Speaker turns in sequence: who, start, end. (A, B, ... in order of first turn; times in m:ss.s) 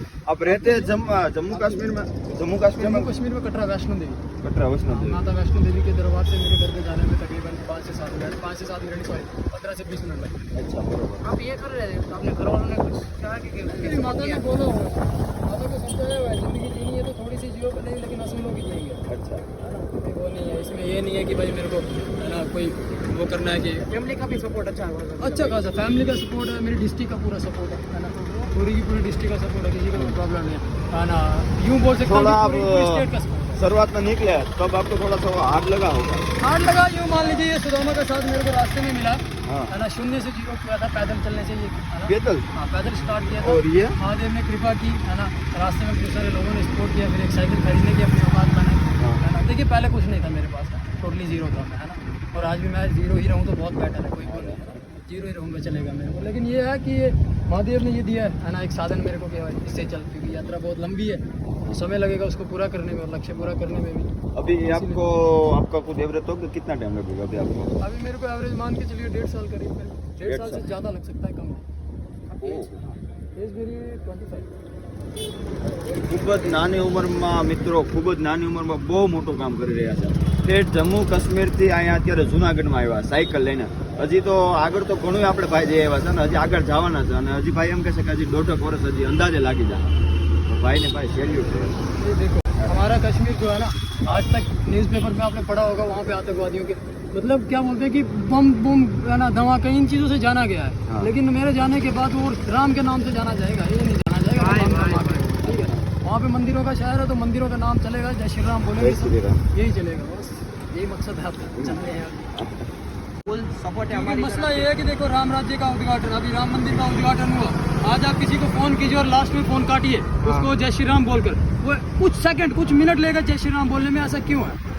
0:00.2-0:03.1 A
0:00.4-0:00.9 B
0:01.5-0:01.8 B
0:02.8-0:04.2 B
0:04.4-0:05.3 A
0:04.8-0:10.4 B
0:10.5-0:11.3 A
0:11.2-0:14.5 C
0:13.6-0:19.0 B
0:19.1-0:19.4 A
0:19.6-0:23.9 B
0:23.9-0:25.7 C
0:25.2-0:33.6 B
0:32.0-0:36.2 A
0:36.4-1:05.0 B
0:39.4-0:39.7 A
0:42.0-0:42.4 A
0:43.4-0:44.0 A
0:54.2-0:54.6 A
1:04.3-1:07.8 A
1:07.8-1:11.6 B
1:10.2-1:10.6 A
1:12.4-1:12.6 B
1:12.4-1:13.0 A
1:13.4-1:14.5 B
1:15.9-1:29.9 A
1:30.5-1:31.9 A
1:32.0-1:52.2 B
1:44.3-1:45.4 D
1:45.4-1:45.9 A
1:48.8-1:49.4 A
1:53.2-1:54.7 D
1:53.9-2:04.6 B
2:00.2-2:00.5 D